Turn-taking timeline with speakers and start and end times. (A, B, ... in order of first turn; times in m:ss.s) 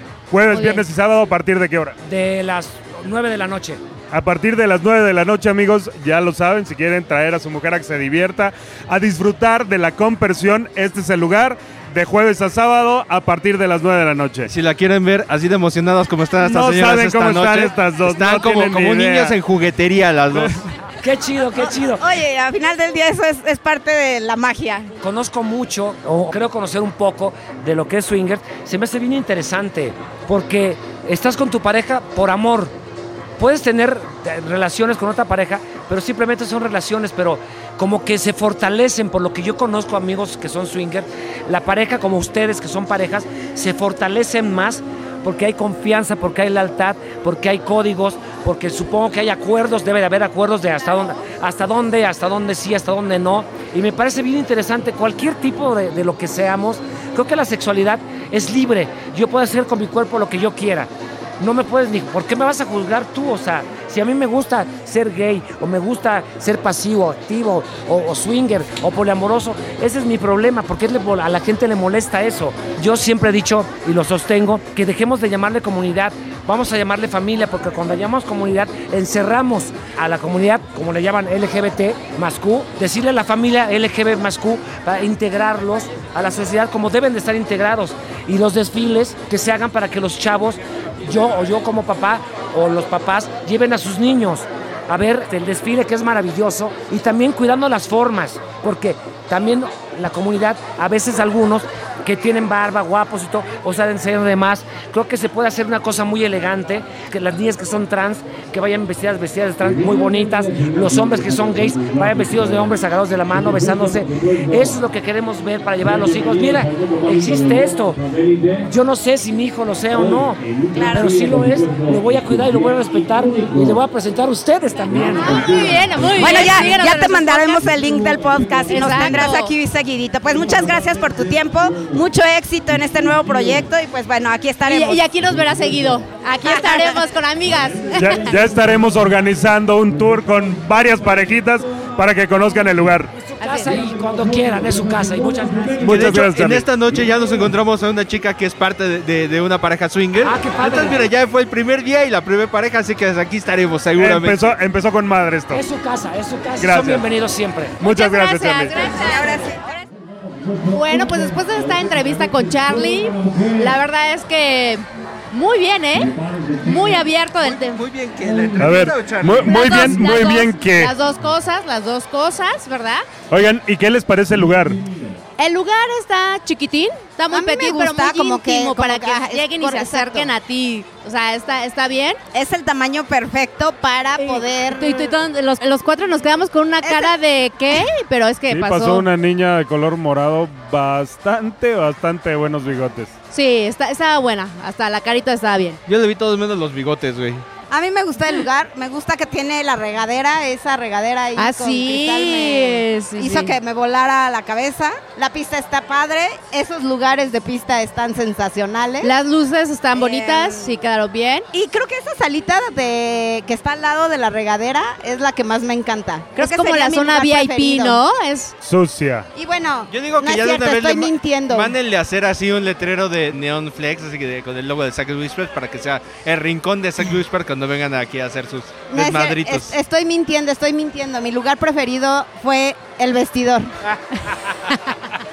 0:00.3-0:02.0 A
0:00.5-0:00.8 B
0:02.0-0:03.8 C
0:04.1-0:14.5 A
0:14.5-0:20.6 D
0:16.4-0:19.4 A
0:20.3-0:20.6 A
0:21.0-0:22.0 C
0:21.6-0:24.9 E
0:25.0-0:32.7 C
0:33.4-1:58.0 C
1:58.1-1:58.4 A
1:58.6-2:05.5 C
2:00.7-2:01.3 E
2:05.1-2:07.6 B
2:05.4-2:05.7 A
2:06.2-2:15.0 E
2:08.7-2:09.5 B
2:14.6-2:18.4 B
2:16.4-2:17.0 E
2:17.9-2:23.1 A
2:23.2-2:26.1 C
2:23.4-2:23.7 B
2:25.8-2:26.7 A
2:25.8-2:34.5 D
2:30.2-2:31.1 C
2:34.0-2:35.6 A
2:35.5-2:37.8 C
2:36.6-2:37.0 A
2:37.8-2:39.1 A
2:37.8-2:39.4 B
2:38.8-2:39.8 E
2:40.6-2:47.8 B
2:47.4-2:50.0 D
2:48.6-2:50.9 A
2:49.4-2:53.0 B
2:53.3-2:54.8 A
2:55.4-3:02.2 B
2:57.3-3:00.3 E
3:02.3-3:04.9 E
3:04.2-3:09.1 B
3:06.8-3:07.2 E
3:08.5-3:13.1 A
3:13.3-3:15.8 B
3:15.9-3:17.4 D
3:17.7-3:29.1 E
3:21.4-3:23.6 B
3:29.0-3:31.5 B
3:29.9-3:30.7 E
3:31.5-3:38.0 E
3:36.4-3:38.5 B
3:38.6-3:39.3 A
3:39.3-3:41.8 E
3:39.9-3:49.7 D
3:48.9-3:53.7 E